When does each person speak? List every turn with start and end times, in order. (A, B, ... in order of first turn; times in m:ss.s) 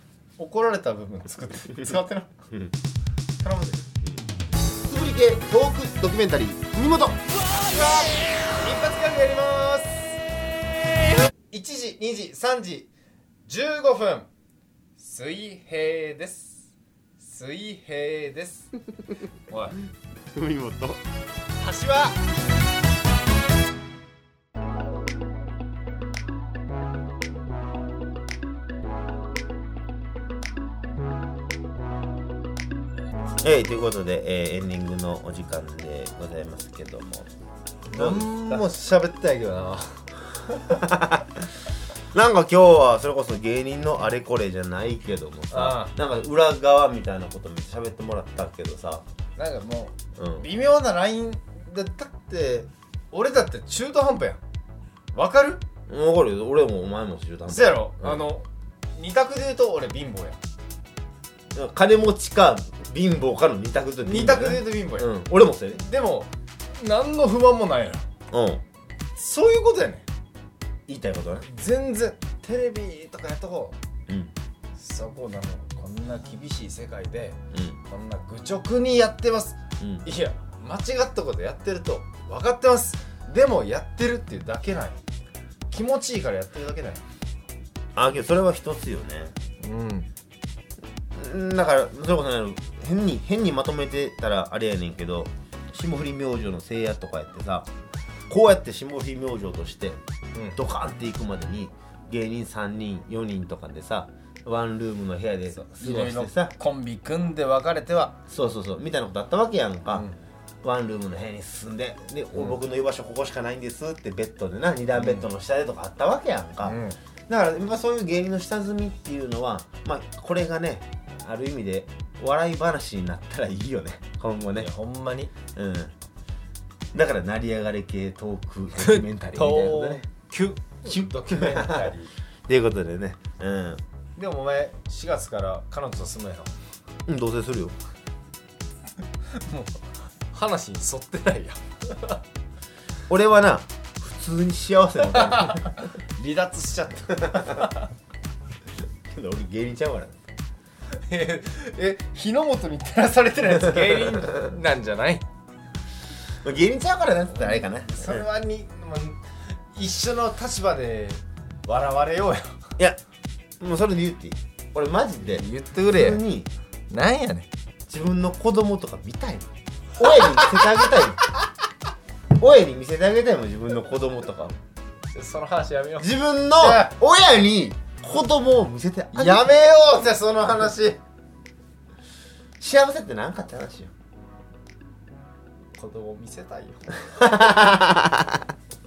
0:00.4-0:02.4 A
0:03.4-0:03.9 A
0:04.8-0:07.2 B
0:07.3-0:10.2 A
0:11.5-0:12.9 A
0:13.5-0:14.3 A
0:15.0-0:18.7 A
0:19.5-0:19.8 A
0:20.3-0:21.0 B
0:21.6-0:22.2 A
0:33.4-0:37.3 B
0:37.9-0:40.8 A
0:38.0-0:38.6 B
0:40.7-0:41.5 B
0:42.1-0:49.0 B
0:45.5-0:46.0 A
0:49.4-0:54.4 A
0:50.2-0:50.5 B
0:55.1-0:55.6 A
0:55.9-0:58.3 B
0:57.5-1:00.4 A
1:01.5-1:05.8 B
1:04.0-1:05.1 A
1:05.7-1:08.1 A
1:08.3-1:08.6 B
1:09.2-1:10.1 A
1:10.9-1:11.5 B
1:11.4-1:13.8 A
1:14.1-1:14.3 B
1:14.8-1:25.0 A
1:17.5-1:17.8 B
1:19.8-1:20.1 B
1:25.7-1:27.0 A
1:28.0-1:29.4 B
1:29.6-1:30.1 A
1:31.2-1:37.7 B
1:38.3-1:40.0 B
1:40.4-1:40.6 A
1:40.6-1:46.5 B
1:45.5-1:48.2 A
1:48.3-1:50.1 B
1:49.9-1:50.2 A
1:50.6-2:04.7 B
1:55.0-1:55.3 A
1:56.6-1:57.0 A
2:04.6-2:05.3 A
2:05.6-2:06.0 B
2:06.9-2:10.1 B
2:08.8-2:12.1 A
2:10.9-2:12.0 B
2:12.5-2:13.8 B
2:14.2-2:16.5 A
2:17.1-2:17.8 B
2:19.3-2:22.2 A
2:23.1-2:25.8 B
2:25.1-2:27.9 A
2:27.2-2:27.7 B
2:29.1-2:30.3 B
2:31.0-2:35.2 A
2:36.4-2:38.3 B
2:37.3-2:39.2 A
2:39.7-2:42.6 A
2:43.6-2:46.5 B
2:45.4-2:46.2 A
2:46.9-2:47.5 A
2:47.9-2:49.5 B
2:50.0-2:51.2 B
2:50.0-2:51.0 A
2:52.4-2:54.6 B
2:55.1-2:56.9 A
2:56.0-2:59.5 B
2:59.1-3:01.0 A
3:02.6-3:03.9 B
3:05.8-3:06.9 A
3:07.1-3:08.5 B